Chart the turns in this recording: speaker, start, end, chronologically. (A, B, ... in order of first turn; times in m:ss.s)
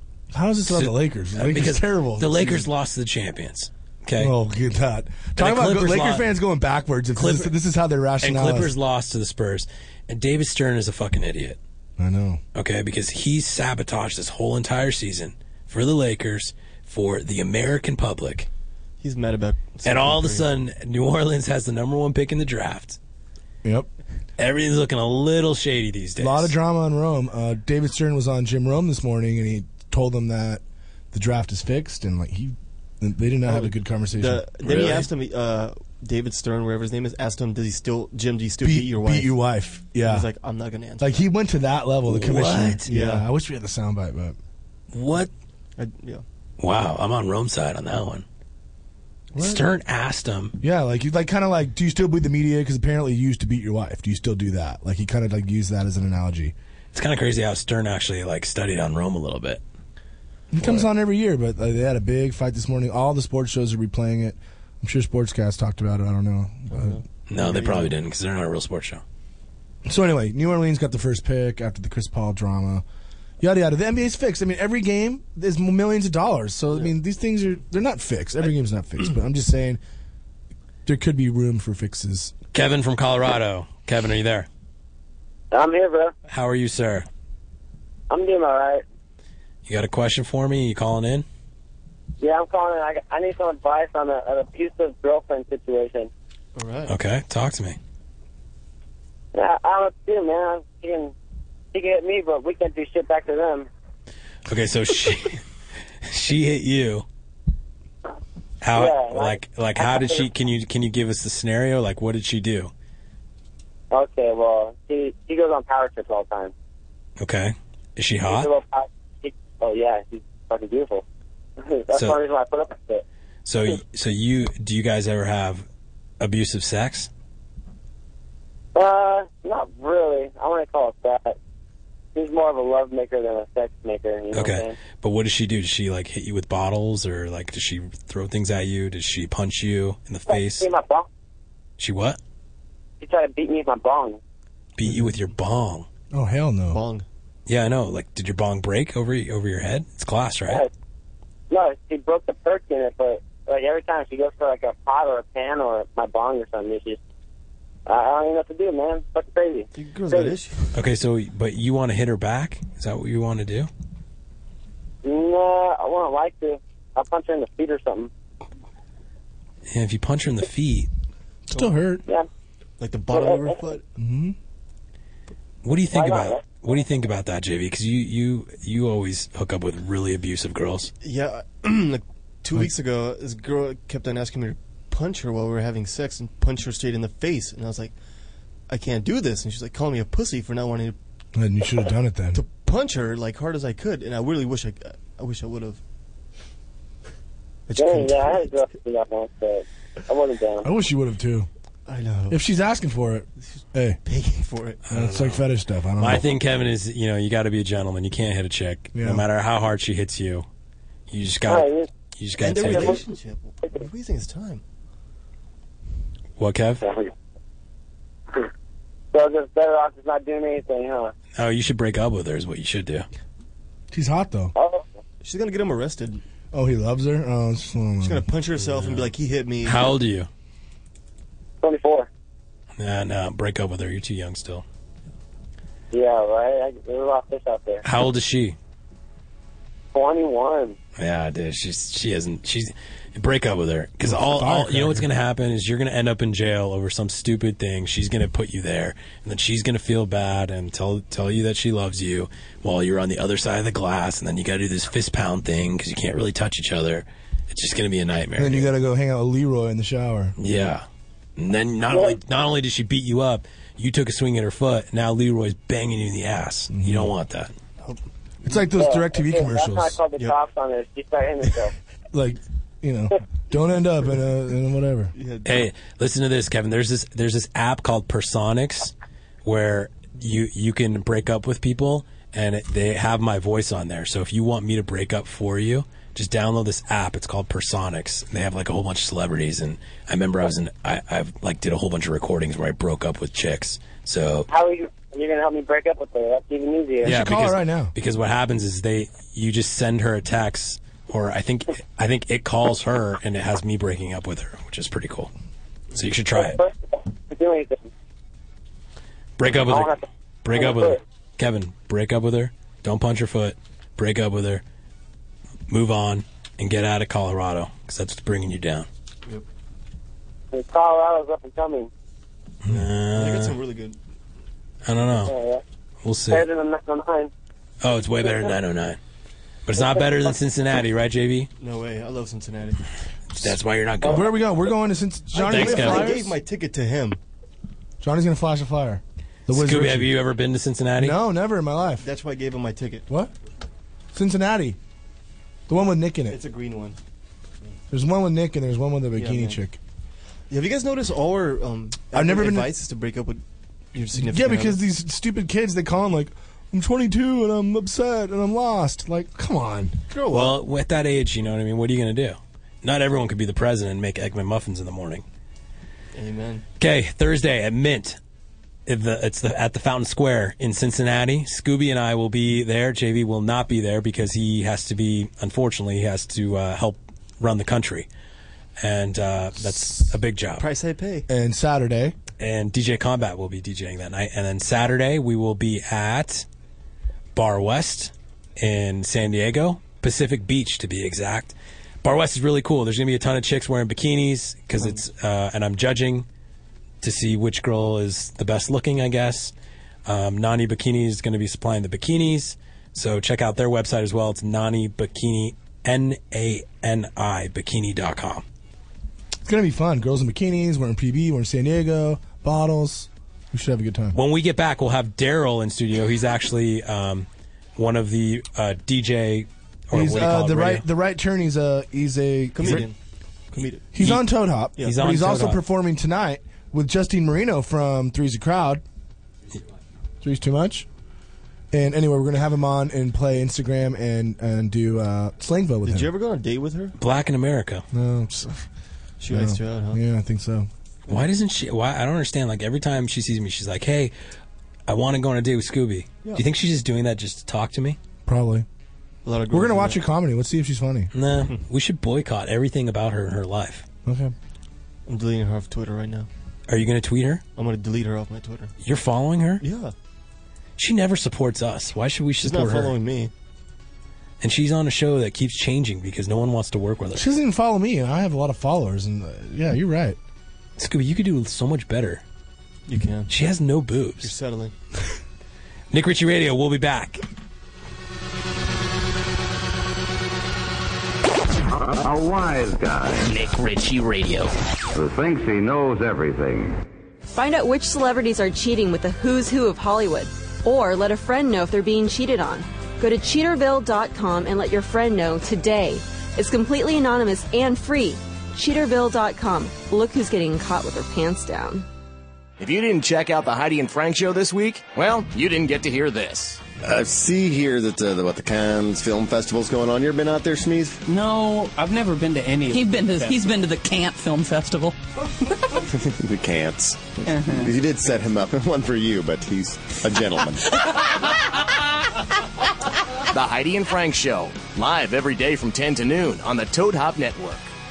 0:00.3-0:02.6 A
0:00.7-0:04.3 B
0:04.2-0:08.7 A
0:05.4-0:06.3 B
0:07.2-0:07.5 B
0:08.2-0:11.6 B
0:12.0-0:12.4 A
0:12.5-0:18.5 B
0:19.0-0:20.5 C
0:19.8-0:23.0 B
0:23.6-0:23.9 A
0:24.4-0:26.5 B
0:26.2-0:34.4 A
0:33.4-0:39.3 C
0:34.6-0:35.1 B
0:38.6-0:40.3 A
0:40.0-0:41.2 C
0:41.0-0:44.4 A
0:42.1-0:42.9 B
0:42.9-0:43.2 C
0:44.9-0:45.3 B
0:45.8-0:46.2 C
0:46.6-0:48.2 B
0:49.4-0:50.5 B
0:50.6-0:56.5 A
0:56.9-0:59.6 B
1:00.5-1:07.0 A
1:06.7-1:07.9 C
1:07.3-1:09.0 B
1:09.8-1:12.8 A
1:13.4-1:19.8 A
1:20.8-1:22.3 A
1:22.5-1:24.5 B
1:25.5-1:26.1 D
1:26.3-1:27.0 B
1:28.1-1:28.8 D
1:29.6-1:31.2 B
1:32.2-1:36.1 D
1:36.6-1:36.9 C
1:36.9-1:37.8 B
1:39.3-1:41.1 D
1:41.7-1:43.7 D
1:44.5-1:45.4 B
1:46.0-1:47.0 B
1:48.6-1:52.7 B
1:48.8-1:50.2 D
1:53.9-1:56.5 D
1:57.2-1:58.5 B
1:58.3-2:01.0 D
2:01.6-2:03.0 D
2:03.4-2:05.6 B
2:06.2-2:07.1 B
2:08.7-2:11.4 D
2:12.1-2:14.7 D
2:14.3-2:20.7 B
2:20.3-2:21.1 D
2:21.8-2:22.2 B
2:23.0-2:24.2 D
2:24.8-2:25.9 B
2:26.1-2:26.8 A
2:26.7-2:27.0 C
2:27.5-2:30.6 B
2:31.5-2:37.0 D
2:37.8-2:40.4 D
2:39.7-2:40.7 C
2:40.7-2:43.7 B
2:45.0-2:48.1 D
2:49.7-2:50.9 B
2:51.5-2:52.0 A
2:52.8-2:53.8 C
2:53.1-2:53.6 D
2:54.0-2:54.4 A
2:55.6-3:00.9 B
2:55.9-2:56.4 D
3:01.0-3:07.9 C
3:08.7-3:11.0 C
3:11.3-3:12.4 A
3:12.3-3:15.8 C
3:17.7-3:18.5 C
3:17.8-3:20.7 D
3:20.6-3:21.5 A
3:21.9-3:22.4 C
3:22.3-3:24.0 A
3:23.5-3:24.8 C
3:24.9-3:25.5 B
3:24.9-3:26.2 A
3:26.0-3:30.4 B
3:28.9-3:29.2 A
3:31.1-3:33.0 B
3:31.5-3:31.9 D
3:32.4-3:34.6 C
3:32.6-3:33.0 D
3:36.4-3:36.8 B
3:36.8-3:37.1 D
3:39.1-3:41.1 D
3:41.4-3:43.0 B
3:43.9-3:44.5 A
3:44.6-3:44.8 D
3:45.2-3:46.2 C
3:46.5-3:48.2 A
3:48.0-3:50.0 C
3:48.7-3:49.1 B
3:49.6-3:50.3 B
3:51.6-3:52.1 D
3:52.8-3:54.6 B
3:55.9-3:57.8 D
3:57.8-3:58.6 B
3:59.9-4:00.8 D
4:01.0-4:18.7 B
4:04.0-4:05.1 A
4:18.4-4:20.3 A
4:20.4-4:20.8 B
4:21.4-4:27.5 B
4:26.7-4:27.1 A
4:27.8-4:28.6 C
4:28.4-4:30.0 A
4:28.8-4:31.7 D
4:32.1-4:35.1 A
4:35.1-4:35.6 C
4:35.4-4:38.9 B
4:39.4-4:54.5 B
4:54.5-4:57.1 D
4:57.0-4:57.9 A
4:57.0-5:05.3 B
5:05.9-5:06.6 B
5:06.3-5:07.9 D
5:09.4-5:14.6 B
5:09.7-5:11.0 D
5:15.7-5:18.9 B
5:20.5-5:21.9 D
5:22.6-5:23.5 B
5:22.7-5:24.0 C
5:24.8-5:25.3 B
5:25.3-5:25.6 D
5:26.0-5:26.4 B
5:26.3-5:27.3 D
5:27.8-5:29.0 B
5:29.7-5:31.5 B
5:29.8-5:30.3 D
5:31.6-5:32.8 C
5:33.3-5:34.4 B
5:33.4-5:36.3 A
5:35.3-5:37.2 C
5:35.4-5:36.2 B
5:38.0-5:40.1 A
5:39.5-5:41.2 B
5:41.0-5:42.0 A
5:42.0-5:43.0 C
5:44.1-5:44.8 A
5:45.7-5:46.4 A
5:46.3-5:47.0 C
5:47.9-5:49.8 A
5:49.2-5:49.6 C
5:50.5-5:53.4 C
5:52.1-5:52.7 A
5:53.9-5:54.8 C
5:54.1-6:00.0 A
6:00.1-6:00.6 C
6:00.3-6:05.2 B
6:06.1-6:06.6 C
6:06.8-6:08.2 B
6:08.9-6:18.1 B
6:18.8-6:20.7 B
6:20.6-6:21.3 C
6:21.3-6:22.1 A
6:22.4-6:26.4 B
6:27.3-6:36.3 B
6:37.0-6:39.5 B
6:40.0-6:48.4 B
6:49.4-6:54.2 A
6:54.1-7:00.8 B
6:59.9-7:02.9 A
7:02.5-7:03.0 C
7:03.5-7:03.8 C
7:03.6-7:04.2 B
7:03.9-7:08.8 A
7:04.8-7:05.6 B
7:10.2-7:10.8 A
7:11.7-7:16.1 A
7:15.8-7:17.0 C
7:17.0-7:17.8 B
7:17.9-7:18.5 A
7:19.2-7:20.0 C
7:19.3-7:20.7 A
7:21.1-7:24.1 B
7:24.9-7:28.0 B
7:28.2-7:28.6 A
7:29.2-7:30.0 C
7:29.5-7:31.1 A
7:31.1-7:33.8 B
7:34.0-7:34.3 A
7:35.1-7:36.3 C
7:36.7-7:37.4 B
7:37.6-7:38.7 C
7:38.8-7:39.6 B
7:39.6-7:39.9 C
7:40.8-7:43.0 B
7:42.4-7:43.3 C
7:44.4-7:47.3 B
7:47.1-7:50.2 A
7:50.8-7:52.2 B
7:52.9-7:53.3 C
7:53.3-7:54.3 B
7:54.2-7:54.7 C
7:55.9-7:57.2 B
8:02.0-8:03.2 E
8:05.0-8:06.7 E
8:07.3-8:21.8 F
8:22.6-8:26.6 G
8:26.8-8:31.0 H
8:31.1-8:33.3 I
8:32.6-8:34.9 J
8:35.9-8:37.0 H
8:37.3-8:37.6 J
8:37.5-8:40.6 H
8:43.3-8:47.7 G